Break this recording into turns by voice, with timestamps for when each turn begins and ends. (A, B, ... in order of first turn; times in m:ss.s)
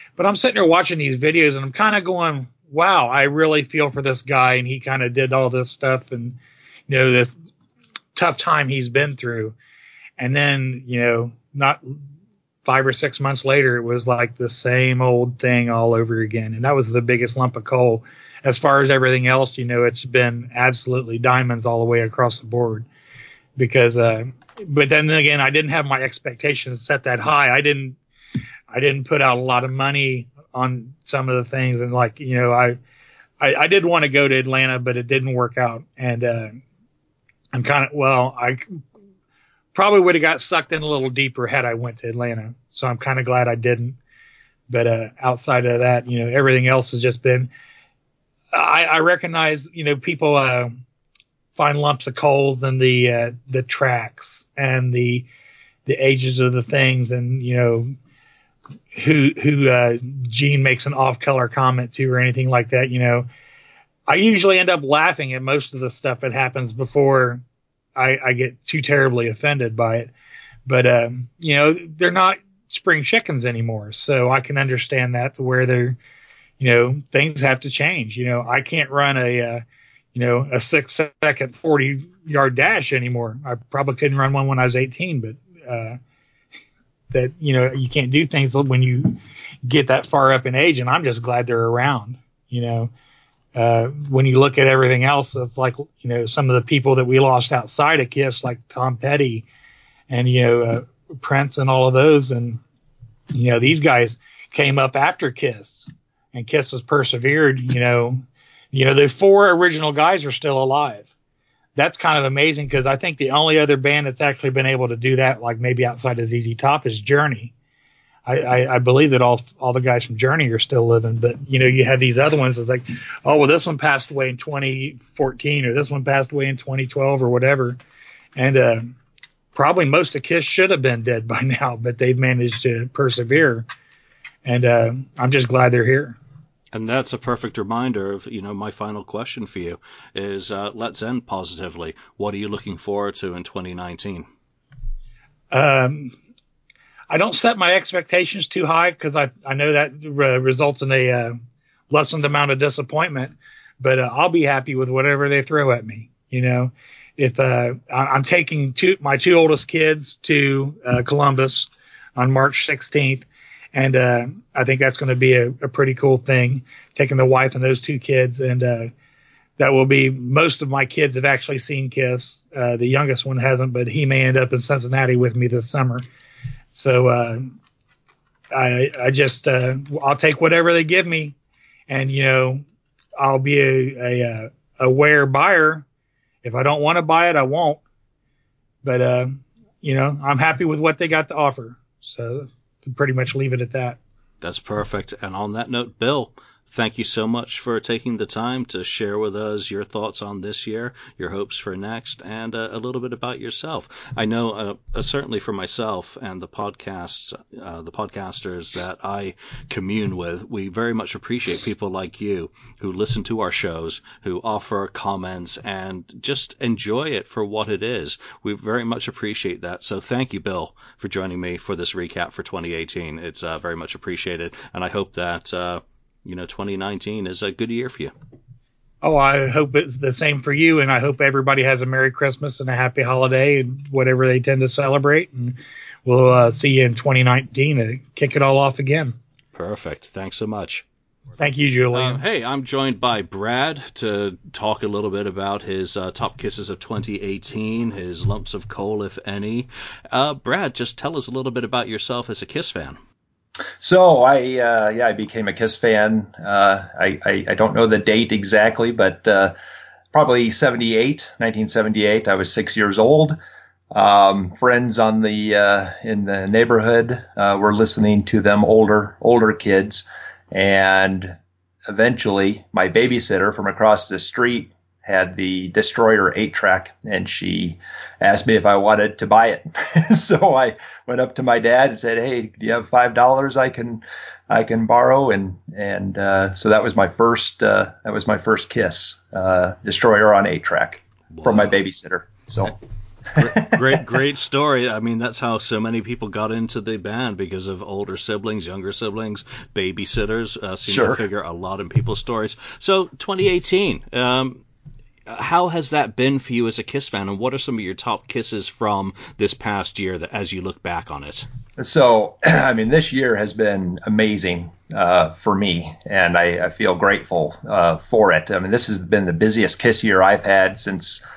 0:00.2-0:06.4 A
0:06.9-0:07.3 A
0:08.1-0:09.5 A
0:10.2-0:11.8 A
0:12.6-0:22.9 A
0:23.6-0:28.0 A
0:28.7-0:32.8 A
0:33.4-0:36.6 A
0:37.5-0:38.8 A
0:39.7-0:44.0 A
0:44.7-0:47.5 A
0:48.5-0:50.8 A
0:51.6-0:55.2 A
0:55.8-0:57.9 A
0:58.9-1:03.3 A
1:04.1-1:07.4 A
1:08.0-1:10.1 A
1:10.6-1:16.0 A
1:16.6-1:19.6 A
1:20.1-1:26.0 A
1:27.1-1:32.9 A
1:33.5-1:39.4 A
1:40.1-1:42.6 A
1:43.3-1:51.1 A
1:51.8-1:57.5 A
1:58.2-2:07.8 A
2:08.4-2:08.9 A
2:09.5-2:13.6 A
2:14.4-2:16.2 A
2:16.7-2:24.3 B
2:25.5-2:26.1 A
2:27.1-2:31.4 A
2:31.9-2:48.9 A
2:49.6-2:56.0 A
2:56.7-2:57.5 A
2:58.5-3:01.3 A
3:01.9-3:02.6 A
3:03.2-3:05.8 A
3:06.4-3:07.8 A
3:08.8-3:14.0 A
3:14.4-3:48.1 B
3:49.0-3:59.2 A
3:59.5-4:00.8 B
4:01.4-4:02.2 A
4:01.9-4:13.0 B
4:13.8-4:19.5 C
4:20.1-4:23.4 C
4:23.9-4:31.4 C
4:31.9-4:52.7 C
4:51.3-4:51.8 B
4:53.4-5:04.6 B
4:53.4-4:54.0 C
5:00.9-5:01.2 C
5:05.3-5:11.4 B
5:11.8-5:21.2 C